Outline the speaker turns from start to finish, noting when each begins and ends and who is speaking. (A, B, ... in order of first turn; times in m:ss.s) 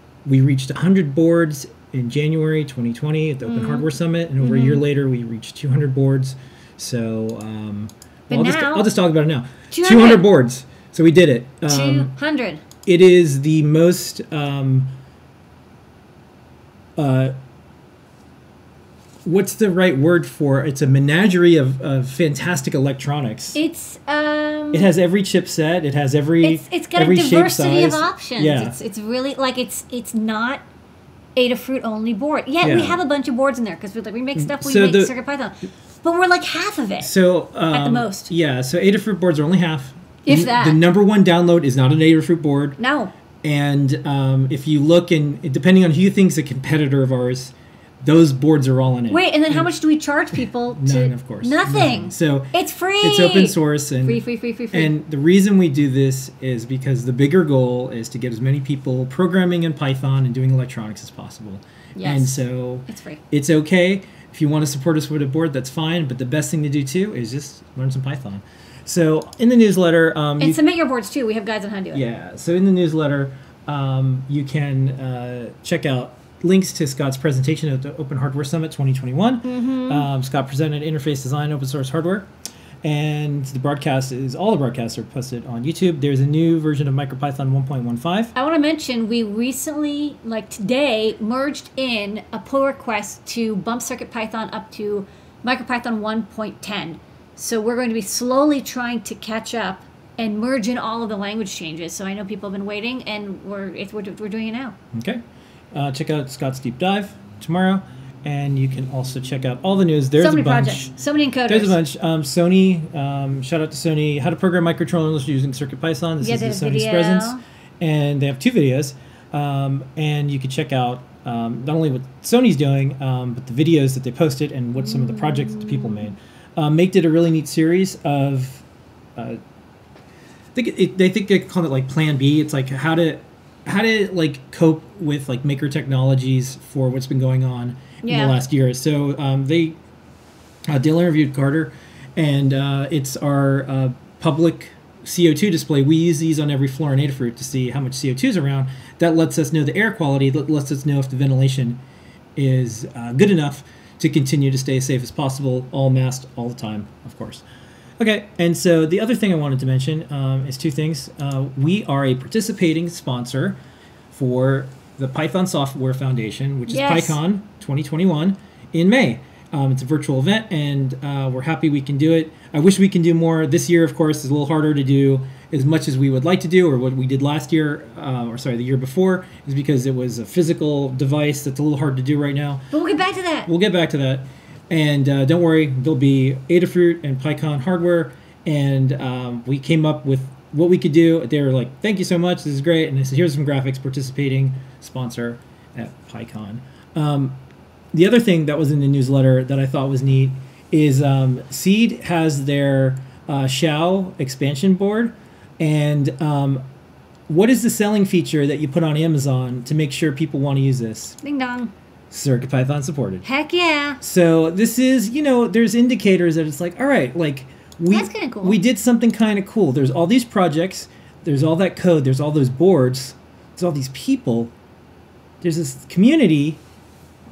0:00.2-0:12.1 A
0:03.4-0:03.9 B
0:04.4-0:04.8 B
0:08.3-0:08.9 B
0:09.7-0:10.2 B
0:11.7-0:12.6 B
0:12.8-0:14.9 A
0:17.0-0:17.3 A
0:19.2-0:23.6 A
0:23.5-0:24.9 B
0:24.7-0:28.7 A
0:26.4-0:30.6 B
0:31.4-0:37.1 B
0:32.6-0:33.0 A
0:34.3-0:35.1 A
0:37.0-0:42.8 A
0:37.7-0:38.3 B
0:40.2-0:40.8 B
0:42.8-0:43.1 B
0:43.4-0:49.7 A
0:49.1-0:54.9 B
0:50.7-1:10.6 A
1:01.9-1:03.2 B
1:10.4-1:12.0 B
1:11.9-1:22.3 A
1:19.4-1:20.1 B
1:22.8-1:28.3 A
1:28.3-1:44.7 B
1:44.9-1:45.2 A
1:45.7-1:50.9 A
1:50.2-1:51.8 B
1:51.5-2:08.6 A
1:56.2-1:57.4 B
2:04.8-2:06.1 B
2:10.5-2:19.8 A
2:18.0-2:18.4 B
2:20.7-2:31.8 A
2:32.4-2:37.4 A
2:38.0-2:43.6 A
2:44.1-3:02.6 A
2:46.7-2:47.2 B
3:02.7-3:03.5 B
3:03.4-3:17.4 A
3:17.9-3:26.6 A
3:27.3-3:31.2 A
3:31.2-3:31.7 B
3:32.1-3:33.2 A
3:33.2-3:34.0 B
3:34.0-3:44.5 A
3:37.9-3:38.6 B
3:45.4-3:46.6 A